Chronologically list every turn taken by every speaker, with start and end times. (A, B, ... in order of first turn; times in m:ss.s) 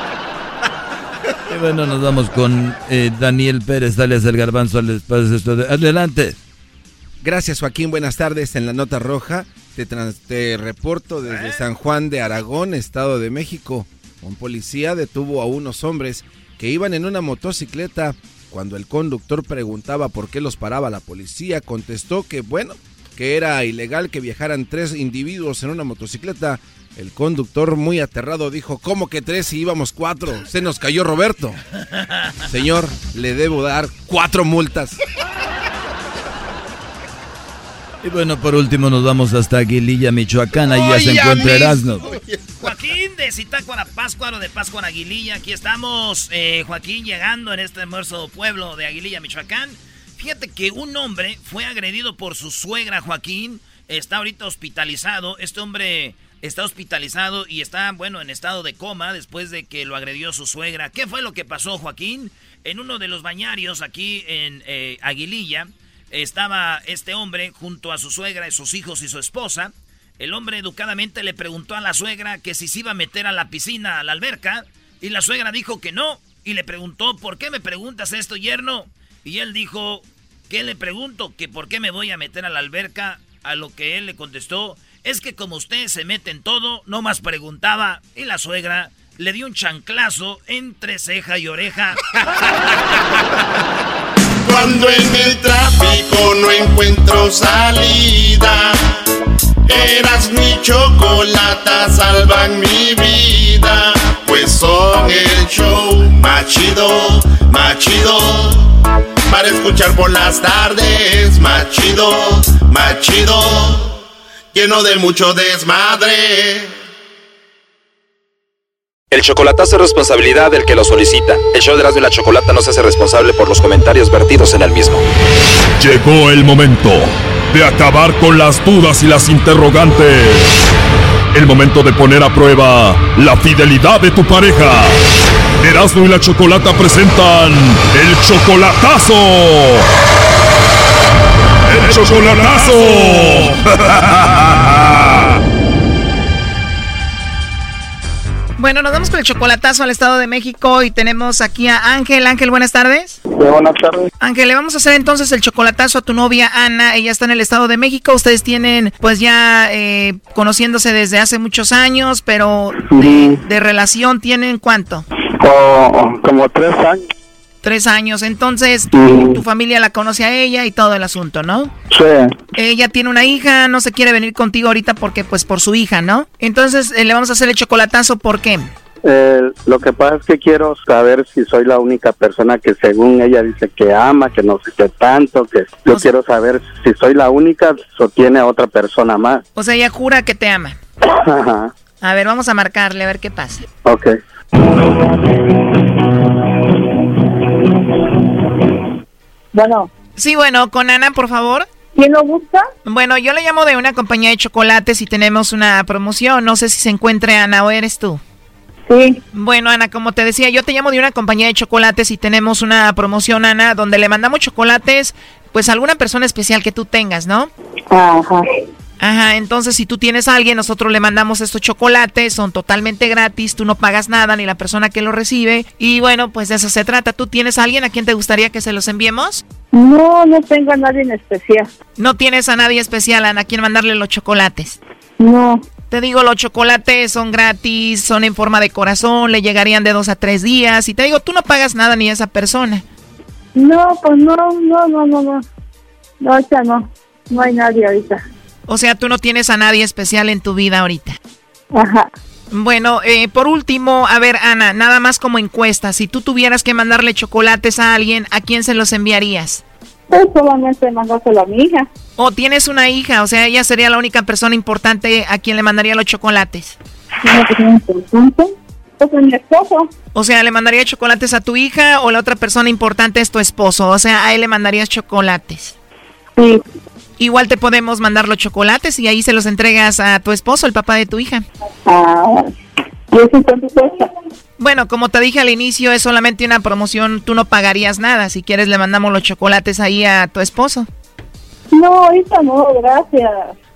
0:01.5-0:06.4 A
0:07.2-0:31.6 B
0:11.3-0:11.6 C
0:32.5-0:35.0 B
0:38.0-0:42.2 A
0:40.6-0:42.6 D
0:42.6-1:32.0 C
1:34.4-1:39.1 D
1:39.7-1:48.7 D
1:49.3-1:54.0 D
1:54.5-1:56.8 D
1:59.1-2:05.0 E
2:05.8-2:10.5 F
2:11.3-2:15.0 F
2:15.6-2:19.9 F
2:21.7-2:25.0 F
2:28.6-2:33.2 G
2:33.3-2:34.1 H
2:34.2-2:45.1 G
2:42.9-2:43.4 H
2:45.4-2:47.0 H
2:47.6-2:51.7 G
2:48.9-2:49.4 H
2:51.9-2:52.3 H
2:52.6-2:58.7 G
2:59.0-3:09.4 H
3:09.6-3:10.8 G
3:11.2-3:11.7 H
3:12.0-3:13.6 G
3:13.8-3:14.2 H
3:19.5-3:19.9 I
3:20.2-3:21.7 G
3:22.0-3:22.7 I
3:22.8-3:28.2 G
3:28.9-3:29.2 I
3:29.3-3:37.5 G
3:37.9-3:38.6 I
3:39.0-3:49.4 G
3:49.7-3:51.7 I
3:52.0-3:54.8 G
3:55.2-3:55.6 I
3:55.9-4:02.8 G
4:03.6-4:05.4 I
4:06.2-4:08.2 I
4:08.7-4:11.2 G
4:11.7-4:12.1 I
4:12.5-4:19.6 G
4:20.1-4:21.9 I
4:22.2-4:26.8 G
4:27.2-4:29.9 I
4:30.1-4:35.8 G
4:36.4-4:36.6 I
4:37.2-4:41.5 G
4:41.9-4:42.6 I
4:43.1-4:44.1 I
4:44.6-4:50.9 G
4:51.7-4:53.5 I